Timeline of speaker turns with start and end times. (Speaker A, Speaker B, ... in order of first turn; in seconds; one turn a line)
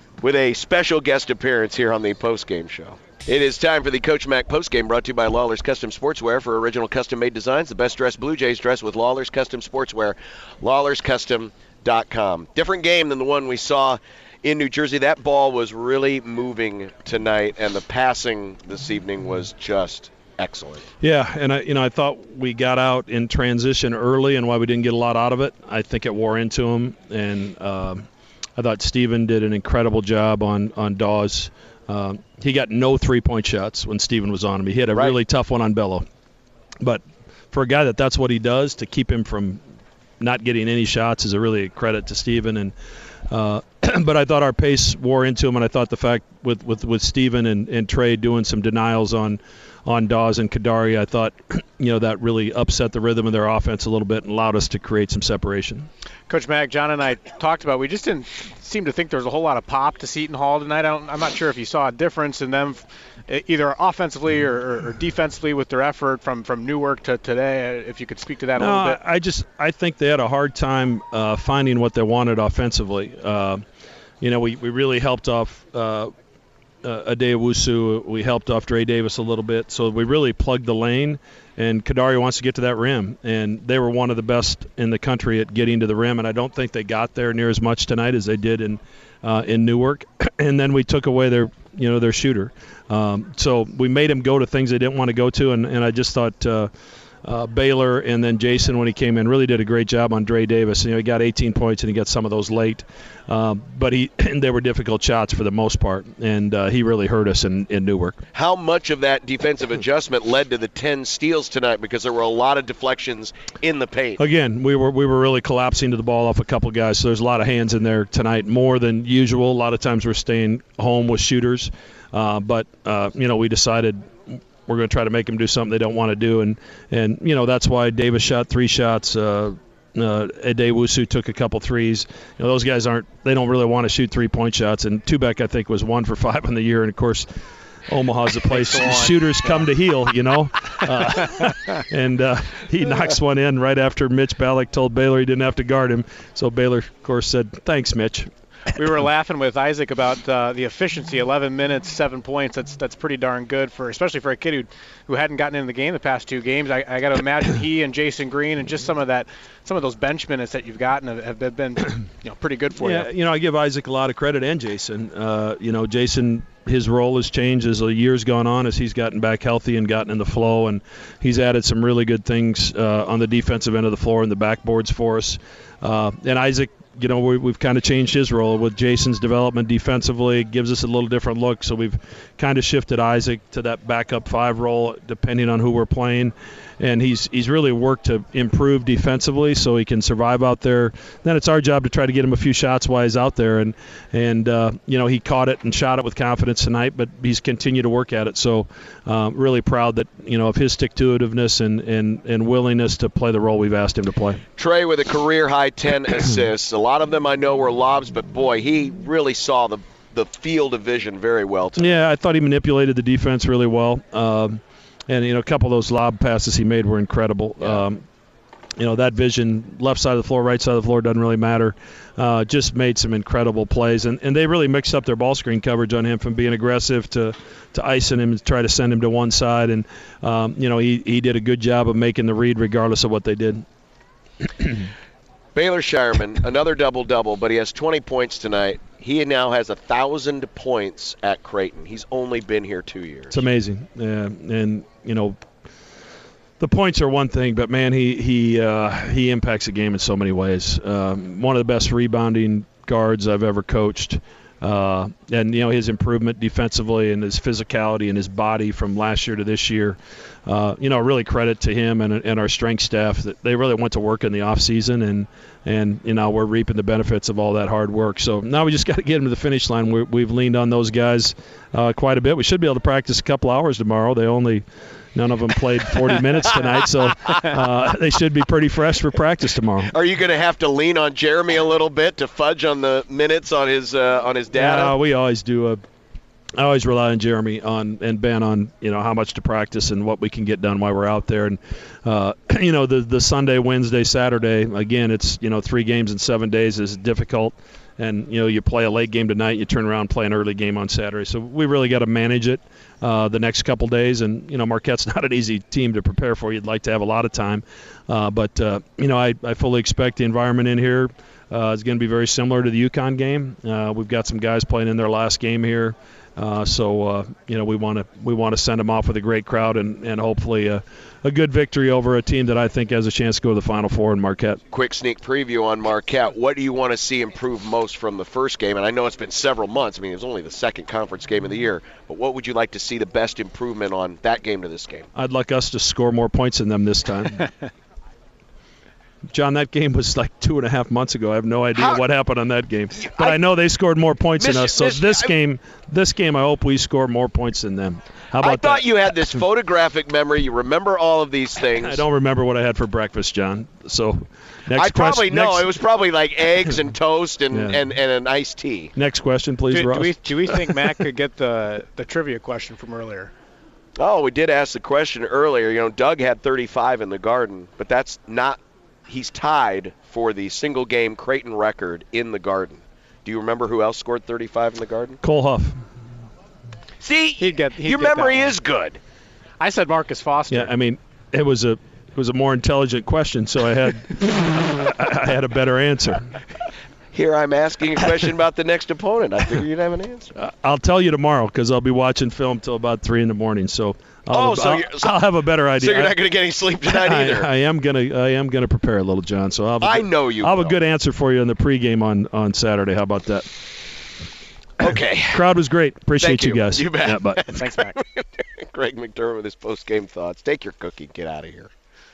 Speaker A: 0.2-20.9
Speaker B: 21.0-28.1
Speaker B: 28.6-36.0
Speaker B: 36.8-39.6
Speaker B: 40.2-42.7
Speaker B: 43.3-55.9
Speaker C: 56.3-69.0
Speaker B: 68.6-73.6
Speaker B: 74.2-76.1
Speaker B: 76.8-96.7
Speaker B: 97.2-108.2
Speaker A: 108.3-114.2
Speaker B: 114.2-137.3
Speaker B: 137.9-148.3
Speaker C: 138.5-139.7
Speaker C: 148.8-163.1
Speaker B: 162.8-204.4
Speaker A: 204.6-212.0
Speaker B: 211.8-218.0
Speaker B: 218.8-233.7
Speaker A: 235.6-243.4
Speaker B: 243.3-245.4
Speaker B: 246.6-279.9
Speaker A: 279.9-285.0
Speaker B: 284.5-285.8
Speaker B: 286.6-324.6
Speaker A: 324.7-335.1
Speaker B: 335.1-337.5
Speaker B: 339.3-348.9
Speaker A: 341.8-342.0
Speaker A: 342.9-343.4
Speaker A: 344.4-345.3
Speaker A: 348.4-352.1
Speaker B: 351.7-355.8
Speaker A: 354.7-358.9
Speaker B: 357.5-357.8
Speaker B: 359.0-360.1
Speaker C: 359.7-363.3
Speaker A: 364.0-375.2
Speaker B: 375.2-375.8
Speaker A: 377.0-379.0
Speaker C: 377.4-378.6
Speaker C: 379.6-380.7
Speaker B: 380.5-386.3
Speaker A: 387.1-390.3
Speaker B: 390.4-396.2
Speaker A: 394.3-395.1
Speaker A: 395.8-397.5
Speaker B: 396.9-403.5
Speaker A: 399.8-400.8
Speaker A: 404.8-405.5
Speaker B: 405.3-407.5
Speaker A: 406.2-411.7
Speaker C: 407.6-408.0